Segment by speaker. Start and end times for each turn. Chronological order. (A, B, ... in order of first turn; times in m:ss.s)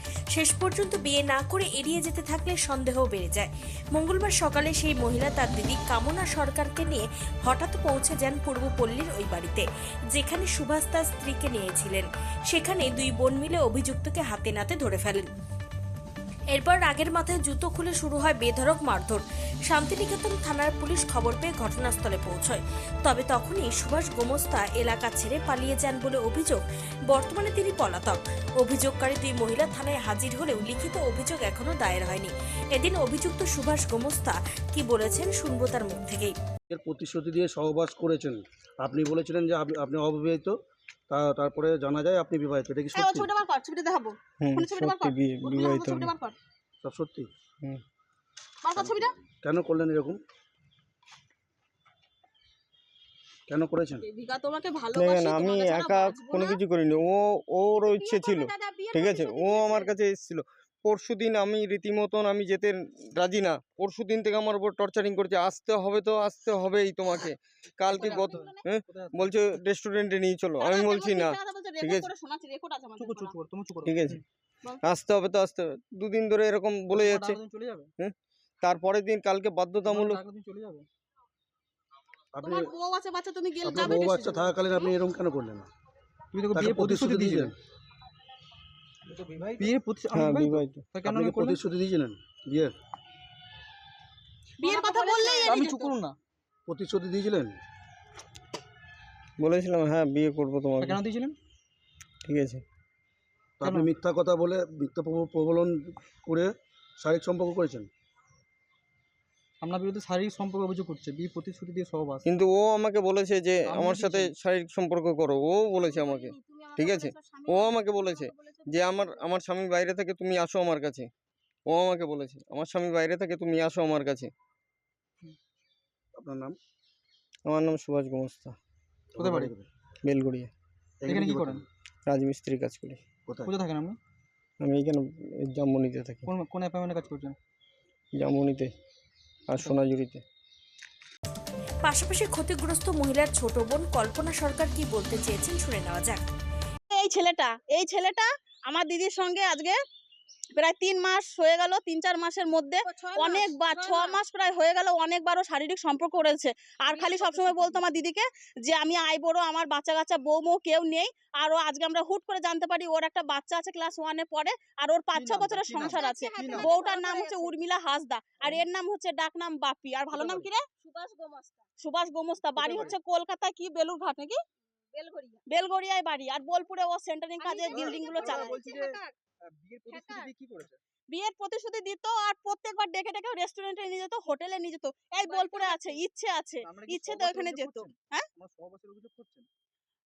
0:00.3-0:15.3 A
0:16.5-0:36.4 A
0:36.7-0:40.6 B
0:41.1-0:43.3 B
0:43.0-0:46.4 C
0:44.4-0:46.1 D
0:46.8-0:47.3 B
0:48.6-0:49.1 C
0:48.8-0:50.2 B
0:53.5-0:54.0 B
0:54.0-0:56.6 C
0:55.0-1:12.1 D
0:57.8-0:59.9 C
1:07.9-1:09.4 E
1:08.1-1:08.6 C
1:10.6-1:13.3 C
1:13.0-1:14.2 E
1:13.9-1:14.2 D
1:14.8-1:17.4 D
1:16.9-1:17.9 E
1:18.0-1:20.2 D
1:19.8-1:20.9 E
1:22.3-1:22.7 B
1:22.4-1:24.9 C
1:23.6-1:25.7 B
1:26.3-1:27.5 E
1:26.5-1:27.5 B
1:29.1-1:31.6 E
1:30.1-1:30.8 D
1:31.0-1:32.7 B
1:34.6-1:35.9 C
1:35.4-1:36.2 E
1:36.7-1:37.6 B
1:39.4-1:41.0 D
1:40.8-1:41.4 E
1:42.2-1:42.6 D
1:43.6-1:47.9 B
1:43.6-1:43.9 E
1:49.6-1:52.3 E
1:52.3-2:01.1 D
1:53.7-1:54.3 E
1:55.8-1:59.2 C
2:01.7-2:04.3 D
2:06.2-2:06.6 B
2:07.5-2:08.6 D
2:09.2-2:09.7 B
2:09.2-2:09.5 E
2:10.0-2:10.5 D
2:11.0-2:11.7 B
2:11.1-2:11.6 E
2:12.1-2:13.0 D
2:13.3-2:13.6 B
2:13.4-2:14.0 E
2:14.6-2:16.3 D
2:16.3-2:17.4 E
2:18.2-2:18.7 D
2:19.5-2:20.2 D
2:21.8-2:26.2 A
2:26.9-2:29.8 C
2:30.6-2:54.4 C
2:45.1-2:46.7 E
2:48.4-2:48.6 E
2:50.1-2:50.5 E
2:52.6-2:53.0 E
2:55.0-2:59.1 C
2:57.7-3:00.8 E
2:59.8-3:00.3 C
3:01.1-3:08.3 C
3:06.6-3:09.5 E